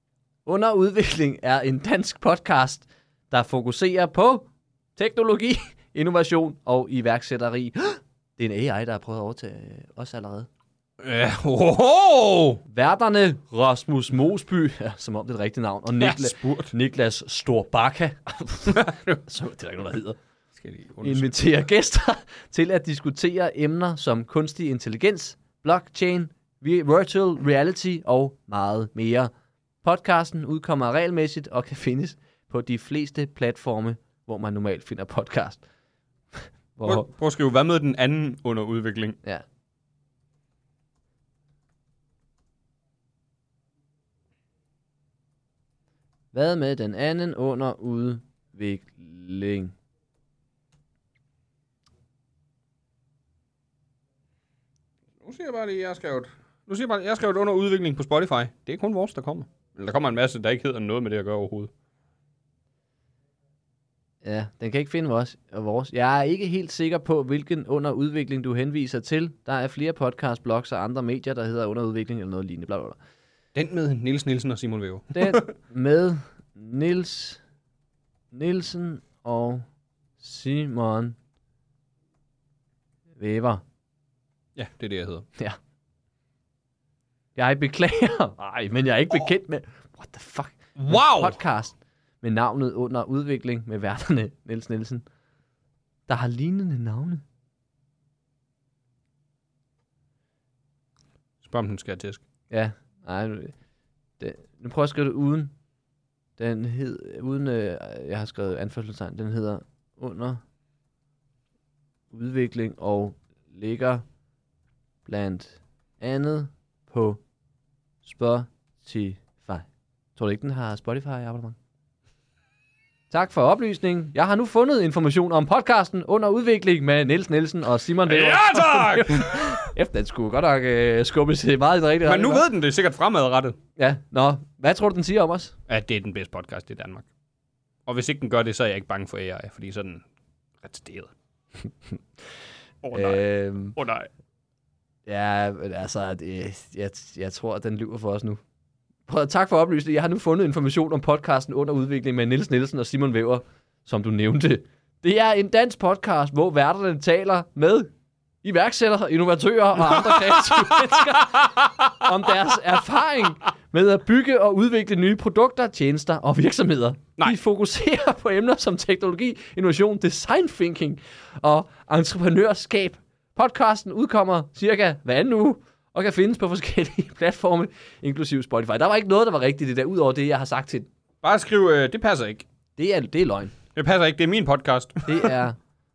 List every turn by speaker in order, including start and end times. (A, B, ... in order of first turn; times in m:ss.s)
0:00.5-0:10.5 A
0:11.0-0:12.6 B
0:12.7-0:20.2 A
0:16.0-0:16.7 B
0:18.7-0:19.2 B
0:20.6-0:21.3 B
0:21.0-0:29.3 A
0:29.8-0:35.6 A
0:36.3-0:37.1 A
0:36.8-0:39.2 B
0:46.3-0:49.7 A
0:55.2-1:01.7 B
1:04.2-1:13.0 A
1:13.6-1:15.5 B
1:15.2-1:17.4 A
1:18.3-1:19.7 A
1:20.2-1:21.2 A
1:23.2-1:23.6 A
1:24.6-1:25.3 B
1:27.4-1:35.0 A
1:30.8-1:31.4 B
1:36.1-1:37.2 A
1:41.4-1:42.2 B
1:42.5-1:43.6 A
1:44.2-1:45.5 A
1:46.4-1:50.4 A
1:52.1-1:54.0 A
1:55.0-1:57.2 A
1:58.0-2:01.6 A
2:03.1-2:12.4 A
2:08.0-2:09.6 B
2:12.0-2:13.6 B
2:13.8-2:15.6 A
2:15.7-2:17.1 B
2:17.9-2:20.0 B
2:20.6-2:21.1 B
2:22.8-2:23.2 B
2:22.9-2:23.8 A
2:23.8-2:24.1 B
2:25.1-2:28.4 A
2:29.1-2:37.9 A
2:38.4-3:00.9 A
2:39.8-2:41.7 B
3:01.2-3:02.5 B
3:02.8-3:03.6 A
3:03.7-3:05.3 B
3:05.1-3:05.6 A